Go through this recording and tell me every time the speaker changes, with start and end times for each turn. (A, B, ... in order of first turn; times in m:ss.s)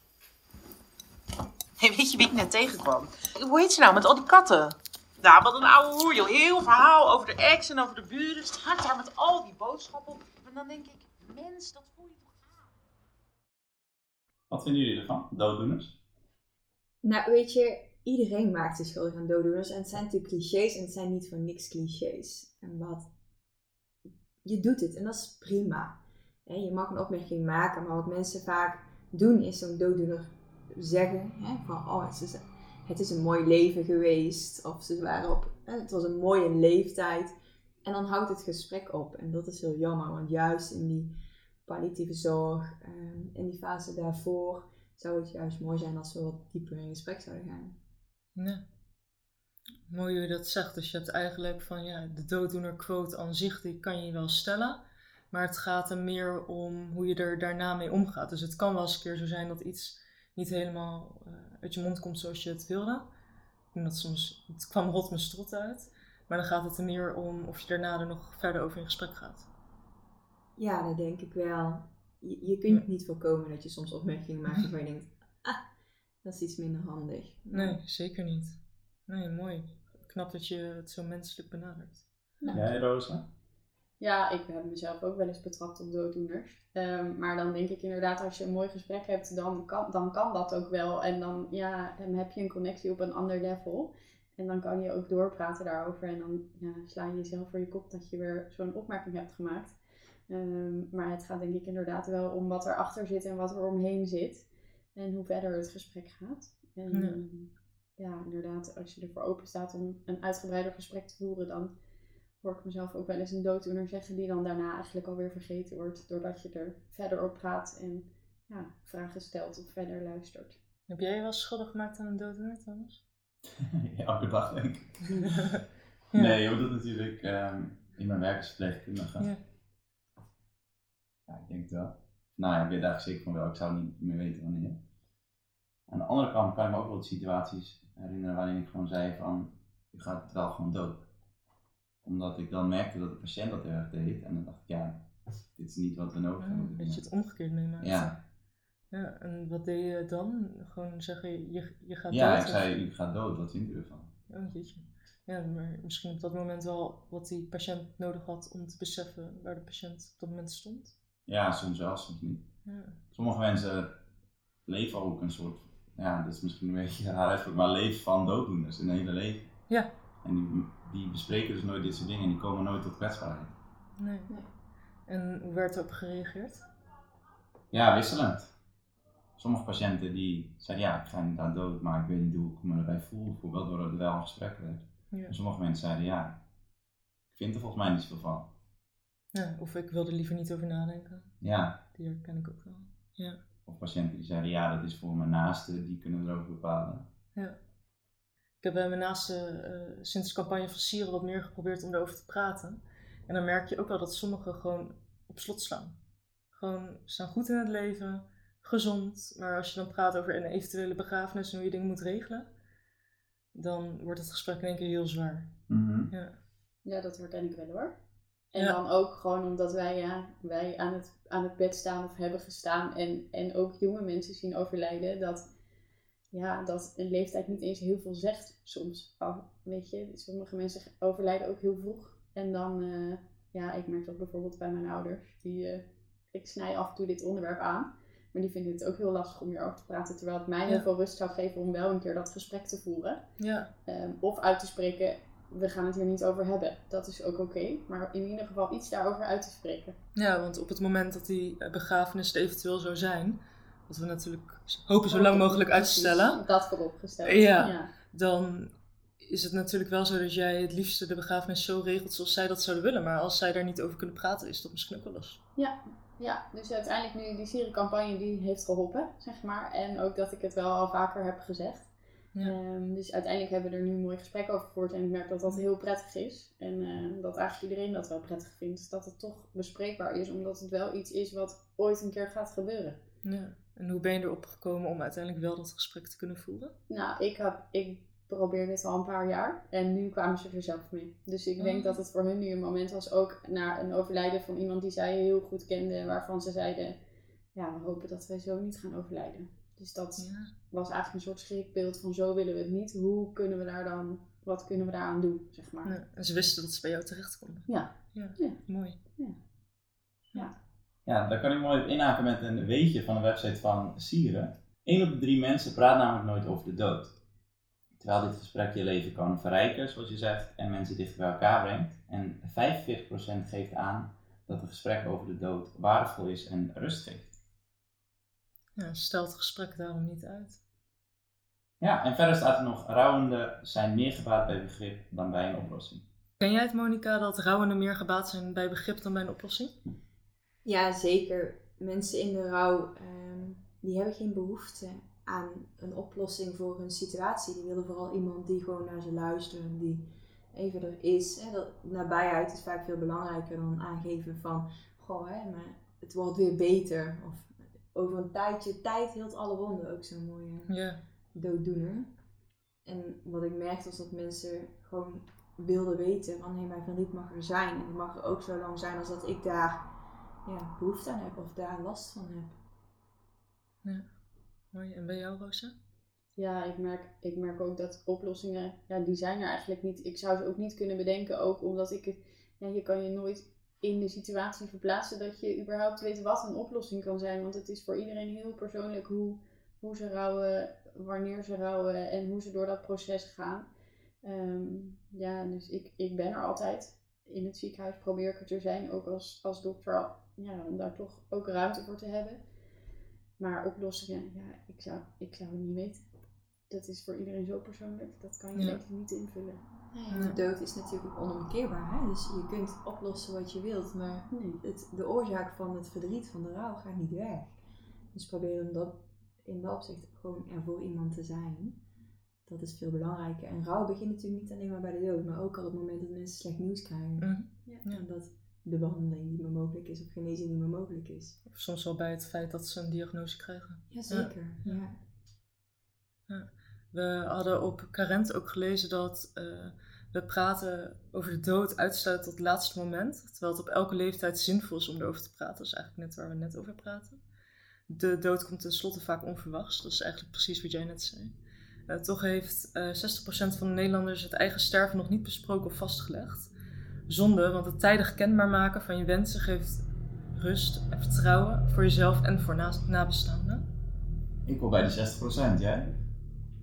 0:01.8-0:12.6 A
0:14.5-0:16.0 B
0:17.0-0:23.1 C
0:24.4-0:47.8 C
0:48.4-0:48.6 D
0:49.9-1:03.1 D
1:03.7-1:09.5 D
1:10.6-1:15.6 C
1:16.2-1:17.8 C
1:17.5-1:22.6 D
1:22.5-1:23.2 B
1:24.0-1:39.8 E
1:40.3-1:51.7 E
1:46.9-1:47.2 D
1:52.4-2:00.6 E
2:00.9-2:03.0 D
2:03.5-2:05.5 B
2:05.2-2:05.6 D
2:06.2-2:09.3 B
2:11.3-2:14.8 B
2:15.9-2:21.1 B
2:22.0-2:27.0 B
2:26.4-2:28.2 D
2:27.8-2:28.1 B
2:28.9-2:32.7 D
2:32.1-2:34.1 B
2:34.3-2:40.9 D
2:41.3-2:42.5 B
2:42.7-2:43.0 D
2:43.1-2:44.0 B
2:44.7-2:49.6 B
2:50.2-2:53.6 B
2:54.0-2:54.3 D
2:55.1-2:56.6 D
2:57.7-2:58.5 B
2:59.4-3:06.4 B
3:07.3-3:08.5 B
3:09.3-3:11.3 D
3:11.4-3:11.8 B
3:11.9-3:13.4 D
3:13.7-3:17.1 B
3:18.6-3:26.0 D
3:26.5-3:32.5 D
3:33.5-3:35.5 D
3:35.7-3:36.1 B
3:36.8-3:38.0 E
3:38.5-3:45.4 E
3:46.3-4:03.2 E
4:03.4-4:03.7 D
4:03.9-4:10.0 E
4:10.2-4:16.4 D
4:15.1-4:17.9 E
4:17.2-4:25.4 D
4:25.6-4:43.0 E
4:43.2-4:46.7 D
4:46.9-4:57.0 E
4:51.6-4:52.0 D
4:57.6-5:06.0 E
5:00.2-5:00.5 D
5:05.8-5:09.0 D
5:07.7-5:08.6 E
5:11.1-5:17.2 B
5:18.0-5:27.4 B
5:28.8-5:30.6 D
5:31.8-5:36.0 B
5:36.4-5:39.8 D
5:40.6-6:00.7 C
6:00.7-6:01.0 D
6:01.3-6:02.1 C
6:02.8-6:09.9 C
6:10.4-6:12.6 C
6:13.8-6:14.1 D
6:14.7-6:15.7 D
6:16.4-6:33.7 E
6:34.2-6:42.4 E
6:43.4-6:46.0 E
6:46.7-6:49.6 E
6:48.6-6:48.8 D
6:49.9-6:57.6 C
6:50.1-6:50.4 D
6:54.3-6:54.6 E
6:58.1-7:01.8 C
7:02.5-7:07.3 C
7:07.2-7:08.0 D
7:07.8-7:11.4 C
7:11.5-7:14.8 D
7:13.9-7:15.0 C
7:16.3-7:27.2 D
7:27.9-7:31.4 D
7:31.9-7:36.5 D
7:37.1-7:43.6 D
7:44.5-7:46.0 B